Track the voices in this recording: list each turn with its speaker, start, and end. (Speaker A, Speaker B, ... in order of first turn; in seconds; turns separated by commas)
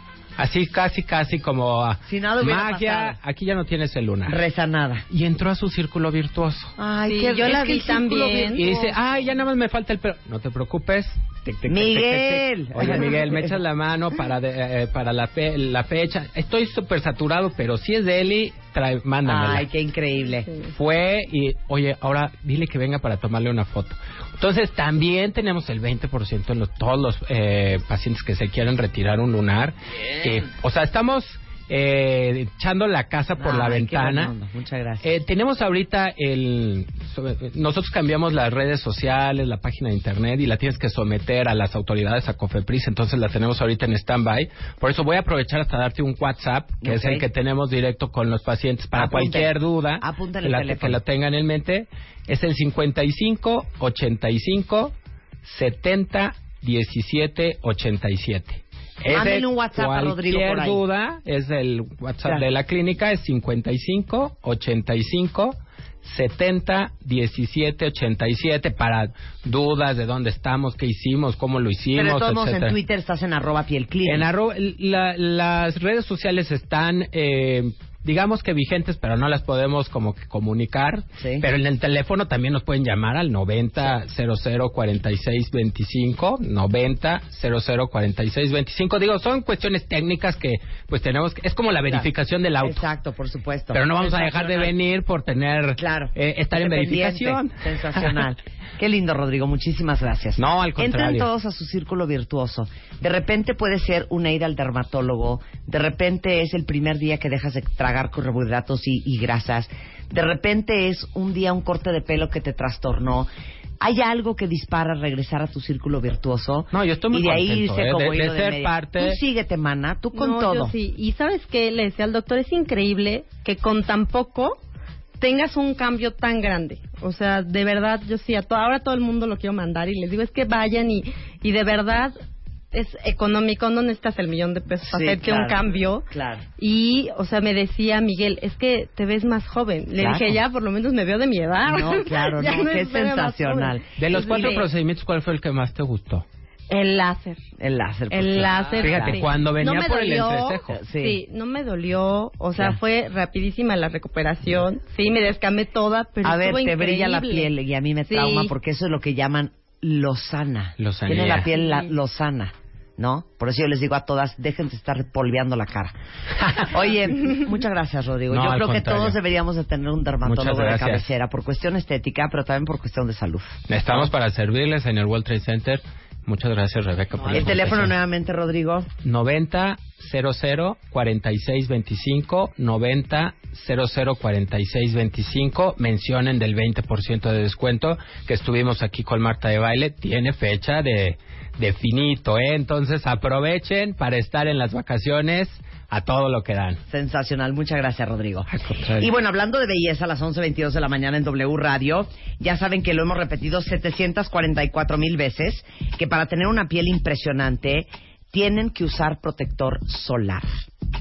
Speaker A: 0.4-4.4, Speaker B: 2.0-3.2, Speaker B: 4.2-5.0, Speaker A: 5.1-6.8, Speaker B: 6.8-9.0, Speaker C: 7.0-8.7, Speaker A: 8.5-19.7, Speaker B: 11.7-13.6, Speaker B: 19.2-20.5, Speaker A: 20.6-34.3, Speaker B: 33.4-35.1, Speaker A: 35.0-72.8, Speaker B: 46.8-47.3, Speaker B: 48.9-51.0, Speaker B: 59.1-60.8, Speaker B: 71.9-74.3, Speaker A: 74.0-92.8, Speaker B: 81.2-81.5, Speaker B: 92.6-94.7, Speaker A: 93.7-98.2, Speaker B: 95.8-113.3, Speaker A: 100.3-101.3, Speaker B: 113.8-120.7, Speaker A: 116.7-119.2, Speaker C: 120.1-124.6, Speaker C: 125.2-132.1, Speaker C: 132.7-136.1, Speaker B: 134.9-136.4, Speaker C: 136.6-144.7, Speaker B: 139.9-140.4, Speaker B: 141.6-144.7, Speaker A: 144.0-146.2, Speaker C: 146.7-147.4, Speaker B: 147.6-149.2, Speaker C: 148.1-157.5, Speaker A: 148.8-150.8, Speaker B: 150.7-151.2, Speaker B: 156.2-165.9, Speaker C: 158.1-158.5, Speaker A: 160.8-161.5, Speaker C: 161.6-161.9, Speaker B: 166.7-174.1, Speaker A: 168.3-169.2, Speaker A: 170.2-171.1, Speaker A: 173.7-177.9, Speaker B: 177.3-178.9, Speaker A: 179.0-196.8, Speaker B: 196.9-210.6, Speaker A: 198.5-199.1